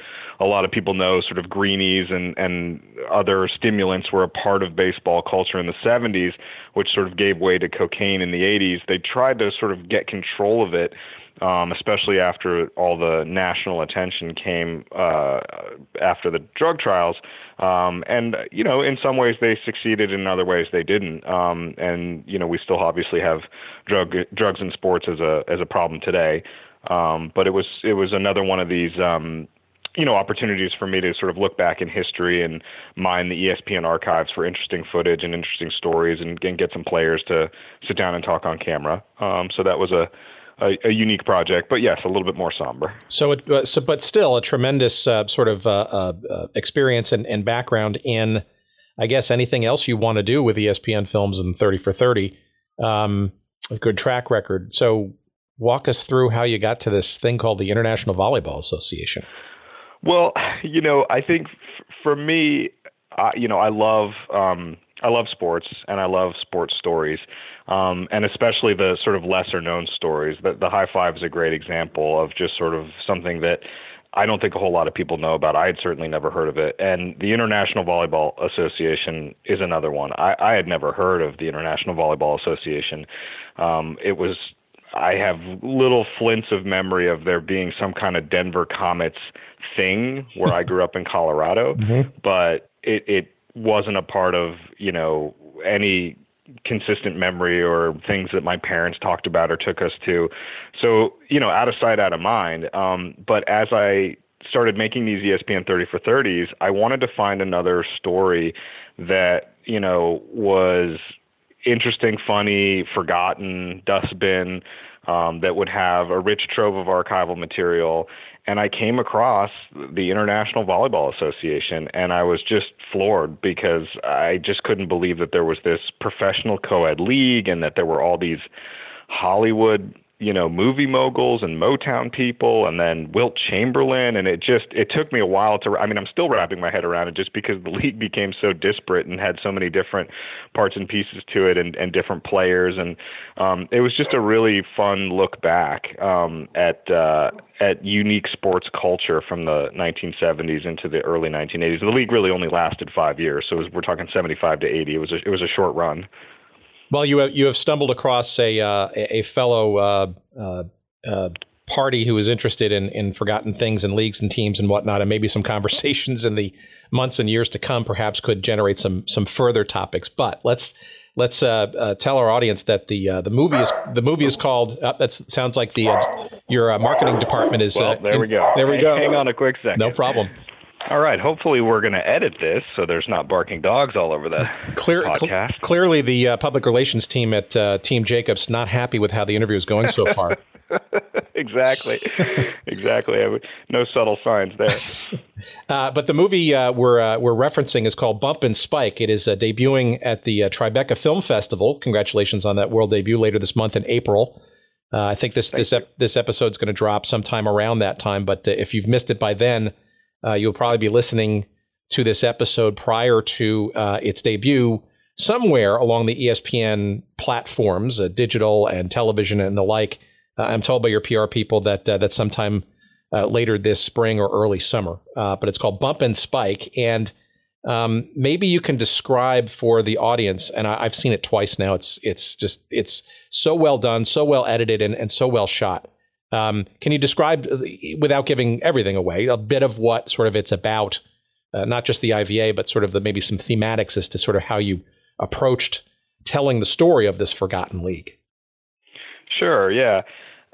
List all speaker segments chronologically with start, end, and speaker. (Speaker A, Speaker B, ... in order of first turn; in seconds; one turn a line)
Speaker A: 0.4-43.0
Speaker B: 43.1-48.4
Speaker B: 49.0-59.2
Speaker A: 60.0-61.5
Speaker A: 62.0-83.1
Speaker A: 83.6-111.0
Speaker A: 111.6-128.4
Speaker A: 129.1-156.1
Speaker B: 156.9-179.2
Speaker A: 177.7-180.0
Speaker B: 179.8-180.3
Speaker A: 180.9-185.6
Speaker B: 184.7-190.4
Speaker A: 190.9-194.9
Speaker B: 195.7-204.4
Speaker B: 204.9-227.1
Speaker B: 227.6-241.0
Speaker B: 241.5-248.1
Speaker A: 249.3-250.0